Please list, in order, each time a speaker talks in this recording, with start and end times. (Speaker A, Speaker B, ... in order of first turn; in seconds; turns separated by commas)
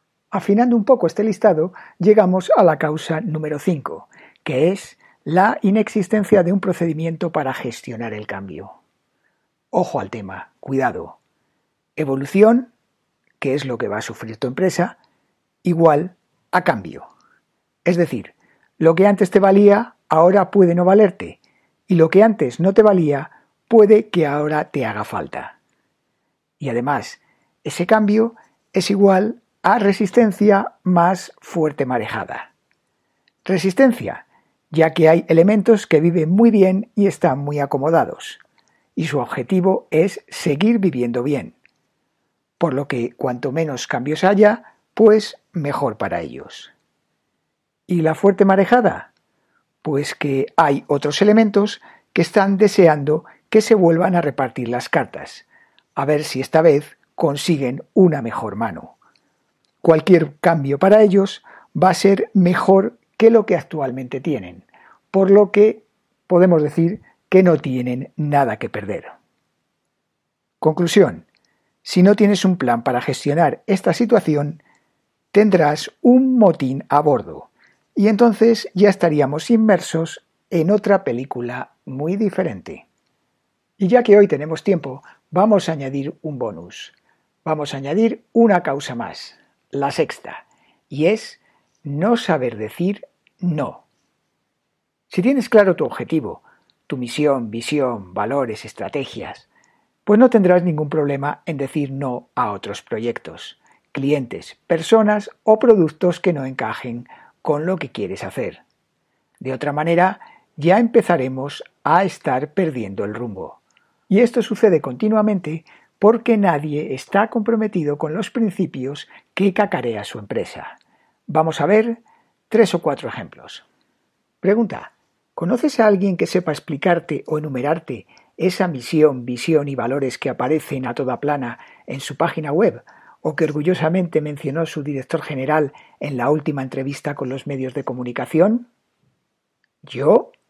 Speaker A: 0.3-8.7, Speaker A: 9.7-11.2, Speaker A: 12.0-12.7, Speaker A: 13.4-15.0, Speaker A: 15.6-17.1, Speaker A: 17.8-25.6, Speaker A: 26.6-32.5, Speaker A: 33.4-38.4, Speaker A: 39.0-41.6, Speaker A: 42.6-46.7, Speaker A: 47.9-49.1, Speaker A: 49.8-59.0, Speaker A: 59.8-69.1, Speaker A: 70.6-71.2, Speaker A: 71.8-74.6, Speaker A: 75.3-82.8, Speaker A: 83.8-93.8, Speaker A: 95.1-99.5, Speaker A: 100.1-108.6, Speaker A: 109.4-120.7, Speaker A: 121.3-123.7, Speaker A: 124.4-138.7, Speaker A: 139.8-140.3